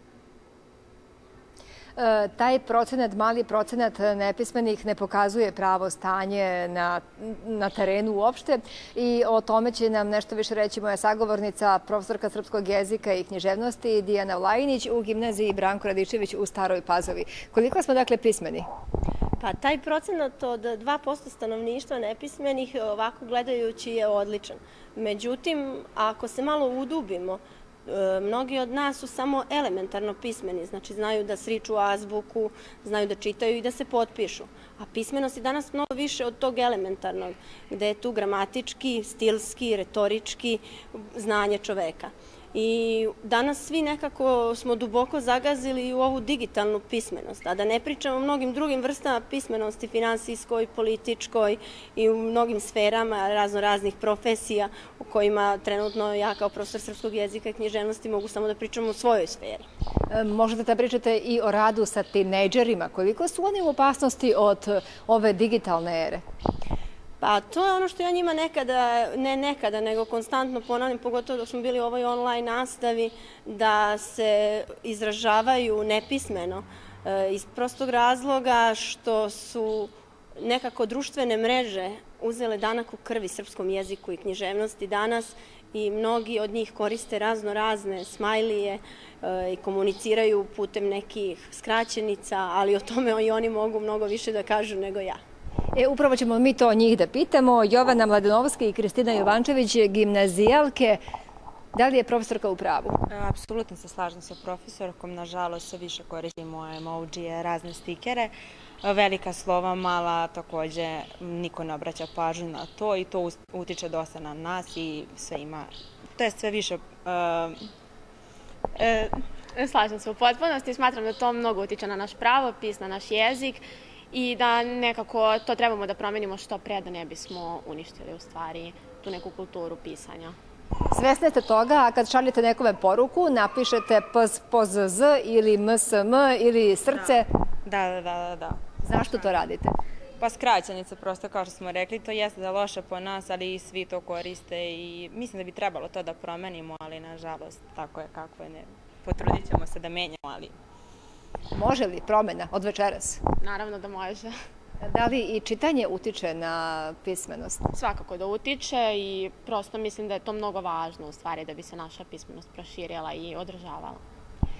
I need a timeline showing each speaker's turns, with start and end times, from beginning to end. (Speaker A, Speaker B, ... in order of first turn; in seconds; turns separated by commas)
Speaker A: 1.9-18.6, Speaker B: 19.4-59.6, Speaker A: 60.1-66.2, Speaker B: 67.2-95.2, Speaker A: 95.7-101.0, Speaker A: 101.7-103.0, Speaker C: 103.1-117.7, Speaker C: 118.8-119.2, Speaker D: 119.5-130.3, Speaker A: 130.9-137.3, Speaker C: 137.6-138.6, Speaker A: 138.8-139.7, Speaker C: 140.2-150.5, Speaker A: 151.5-153.2, Speaker D: 153.4-154.3, Speaker A: 154.8-157.7, Speaker D: 157.7-164.0